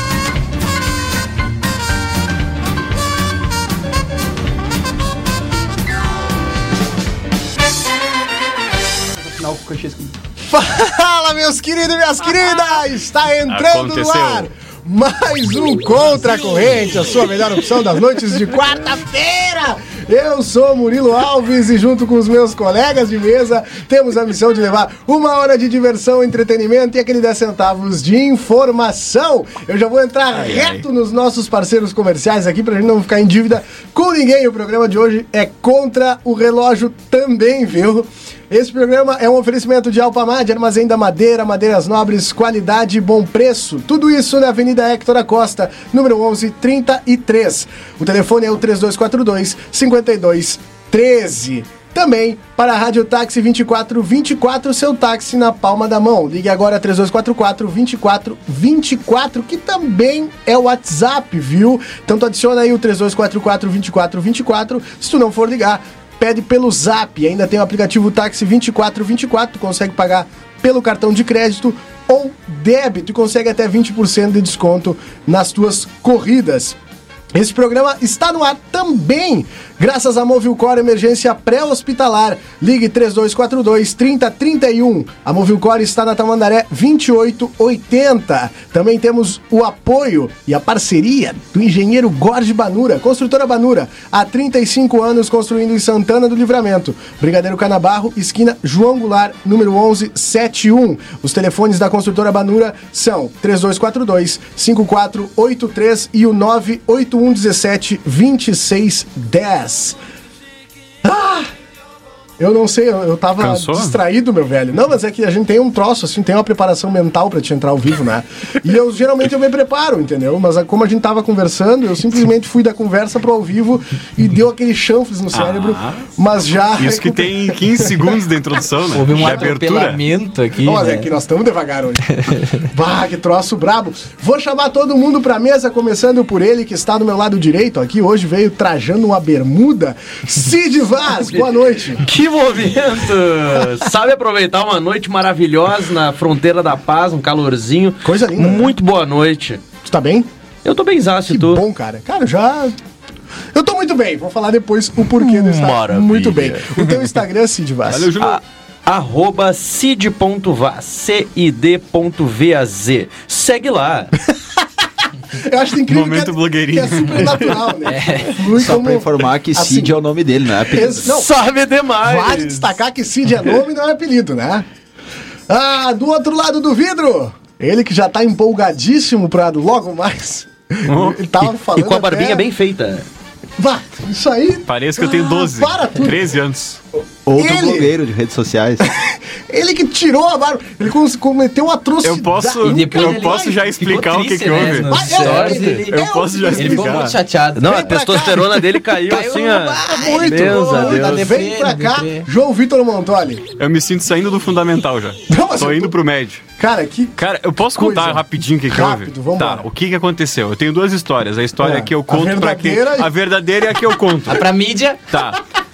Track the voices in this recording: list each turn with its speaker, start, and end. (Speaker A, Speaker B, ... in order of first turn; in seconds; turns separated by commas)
Speaker A: 10.5-76.8, Speaker B: 13.5-14.5, Speaker B: 30.3-30.8, Speaker A: 77.3-110.0, Speaker A: 111.0-111.5, Speaker A: 112.4-127.9, Speaker B: 113.4-114.0, Speaker B: 125.3-126.1, Speaker B: 126.8-130.0, Speaker C: 128.9-131.1, Speaker A: 129.2-129.5, Speaker A: 130.6-142.1, Speaker D: 141.3-149.6, Speaker A: 148.0-148.8, Speaker A: 149.8-150.3, Speaker D: 150.6-151.6, Speaker A: 151.3-152.8, Speaker A: 153.5-158.1, Speaker D: 155.2-156.6, Speaker B: 157.9-158.4, Speaker D: 158.2-164.1, Speaker A: 165.3-169.9, Speaker B: 165.9-167.7, Speaker C: 167.8-168.8, Speaker E: 168.6-171.1, Speaker A: 170.7-171.3, Speaker D: 171.0-172.7, Speaker A: 172.0-174.6, Speaker A: 175.5-182.4, Speaker B: 180.9-181.2, Speaker D: 181.7-183.0, Speaker A: 183.6-186.3, Speaker B: 184.7-186.8, Speaker E: 187.2-188.9, Speaker A: 187.3-187.9, Speaker A: 188.8-193.2, Speaker B: 192.0-194.9, Speaker C: 192.6-196.0, Speaker A: 194.9-198.9, Speaker D: 195.1-195.8, Speaker B: 195.9-197.1, Speaker C: 196.5-197.9, Speaker D: 197.6-201.3, Speaker C: 199.1-202.3, Speaker A: 199.8-203.4, Speaker B: 203.6-206.4, Speaker A: 205.3-205.9, Speaker A: 206.6-207.1, Speaker B: 207.2-214.4, Speaker A: 207.8-209.7, Speaker A: 211.6-213.1, Speaker C: 214.3-215.0, Speaker B: 215.1-215.4